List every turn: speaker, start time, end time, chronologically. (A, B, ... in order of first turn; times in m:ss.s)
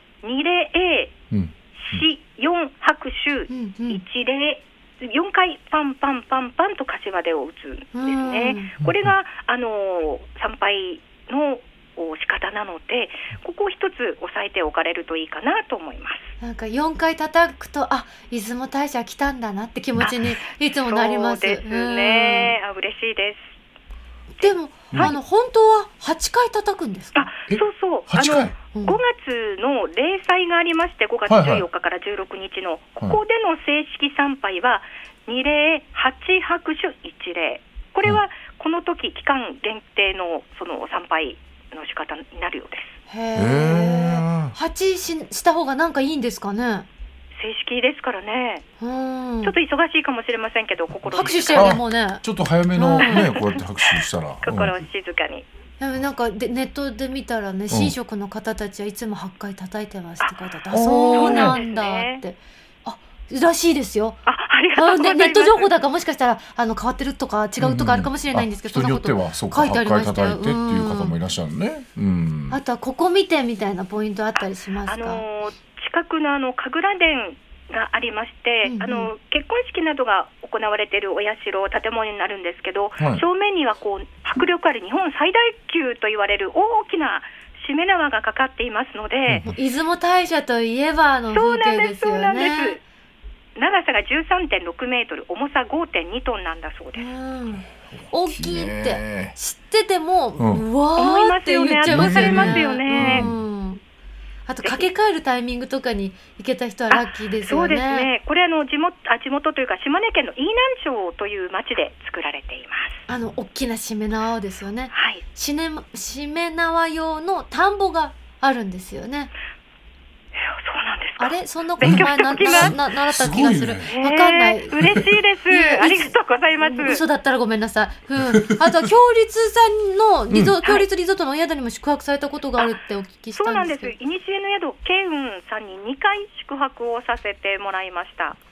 0:00.2-0:01.2 A
0:01.3-0:02.0 B
0:01.8-0:16.3 A
0:03.5-0:04.0 C
0:07.9-0:08.8 C
0:08.8-0:09.1 B
0:16.4-0:22.6 C
0:20.0-0:23.6 A
0:24.4-0:27.3 C
0:24.4-0:25.2 A
0:27.1-0:43.0 A
0:27.5-0:28.5 B
0:28.7-0:29.0 C
0:31.3-0:31.7 B
0:43.1-0:46.9 C
0:43.4-0:44.6 B
0:47.4-0:48.6 A
0:48.8-0:49.6 C
0:49.4-0:51.8 A
0:51.1-0:53.3 C
0:51.5-0:54.8 B
0:53.0-0:53.6 A
0:54.4-0:55.5 A
0:55.8-1:04.2 C
1:00.7-1:01.6 B
1:01.1-1:02.2 A
1:04.2-1:05.7 A
1:04.7-1:11.1 C
1:07.6-1:12.6 B
1:12.5-1:15.2 C
1:14.9-1:29.4 A
1:18.6-1:19.1 C
1:23.0-1:23.2 B
1:29.3-1:29.5 B
1:29.4-1:32.8 C
1:31.3-1:32.8 A
1:33.6-1:37.1 A
1:37.0-1:43.8 C
1:37.6-1:39.4 B
1:40.4-1:40.6 B
1:41.0-1:43.3 A
1:41.8-1:43.4 B
1:44.5-1:48.1 C
1:46.9-1:53.0 A
1:53.1-1:59.3 C
1:54.9-1:55.2 A
2:00.4-2:02.8 A
2:01.2-2:14.0 C
2:01.8-2:03.9 B
2:03.8-2:07.0 A
2:04.8-2:05.1 B
2:08.3-2:08.8 B
2:10.3-2:10.6 B
2:13.4-2:18.4 A